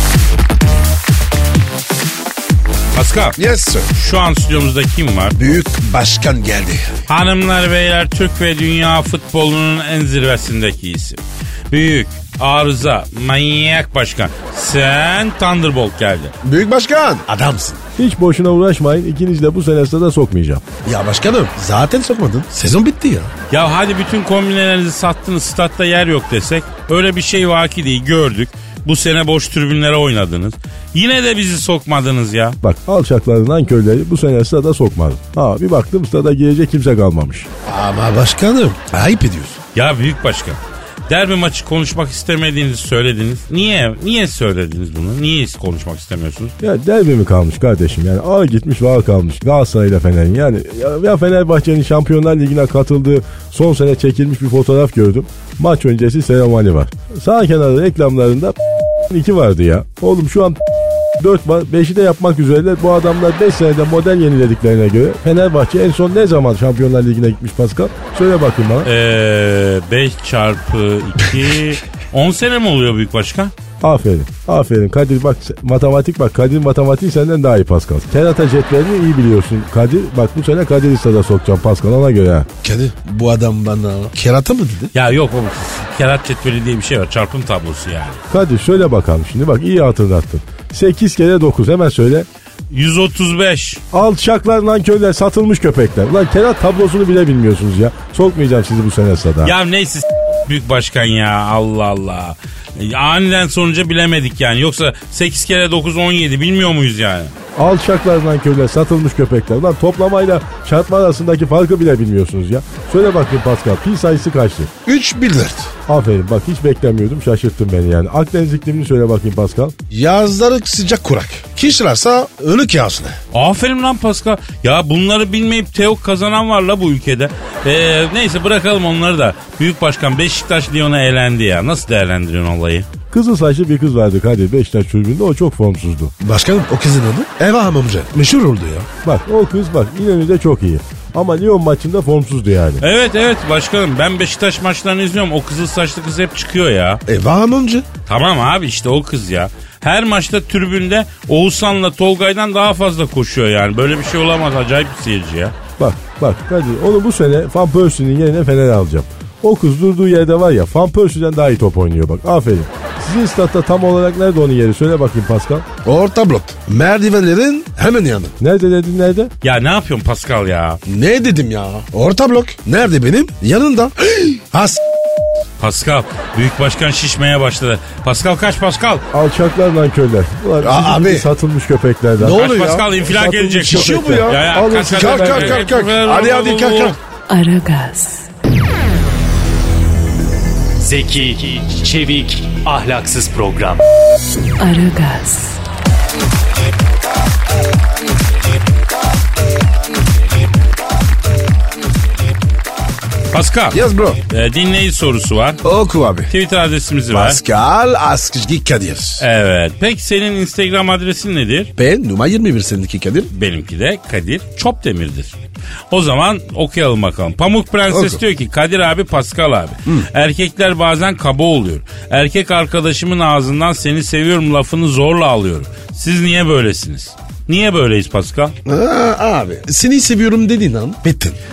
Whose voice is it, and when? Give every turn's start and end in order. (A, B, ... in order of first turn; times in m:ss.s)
0:02.9-0:03.4 A
0:03.4-0:03.9 B
0:03.9-0:05.4 A
0:05.4-0:06.9 B
0:07.1-0:16.3 A
0:16.4-0:17.8 B
0:18.0-0:20.6 C
0:20.8-0:23.3 B
0:23.5-0:32.6 A
0:32.6-0:37.5 C
0:37.6-0:39.6 B
0:39.7-0:46.5 A
0:46.6-0:58.6 C
0:59.1-1:00.6 C
1:01.2-1:08.9 C
1:08.8-1:13.5 A
1:13.8-1:22.5 C
1:22.6-1:24.9 B
1:24.9-1:28.2 A
1:28.3-1:32.3 C
1:32.7-1:33.8 A
1:33.9-1:39.5 C
1:39.4-1:47.3 A
1:47.6-1:54.7 C
1:54.8-1:55.7 B
1:55.9-1:59.7 C
1:59.9-2:03.2 B
2:03.3-2:12.9 A
2:13.1-2:16.1 C
2:16.2-2:18.9 B
2:19.0-2:22.8 C
2:22.8-2:27.0 A
2:27.1-2:27.8 B
2:28.1-2:35.6 A
2:35.8-2:45.6 C
2:45.8-2:48.4 B
2:48.4-2:49.3 C
2:49.4-2:50.8 A
2:50.9-2:54.8 B
2:55.6-2:59.0 A
2:59.1-3:02.4 C
3:00.6-3:01.3 B
3:02.2-3:03.0 B
3:02.3-3:07.0 A
3:03.1-3:05.6 C
3:03.6-3:07.0 B
3:07.3-3:08.3 D
3:10.8-3:13.8 E
3:14.6-3:15.6 D
3:23.3-3:25.6 A
3:23.7-3:24.2 B
3:25.6-3:26.3 B
3:26.3-3:27.4 A
3:27.1-3:29.2 B
3:29.2-3:31.7 A
3:31.8-3:33.3 B
3:33.3-3:35.3 A
3:35.9-3:48.6 A
3:37.9-3:38.2 B
3:48.6-3:51.4 B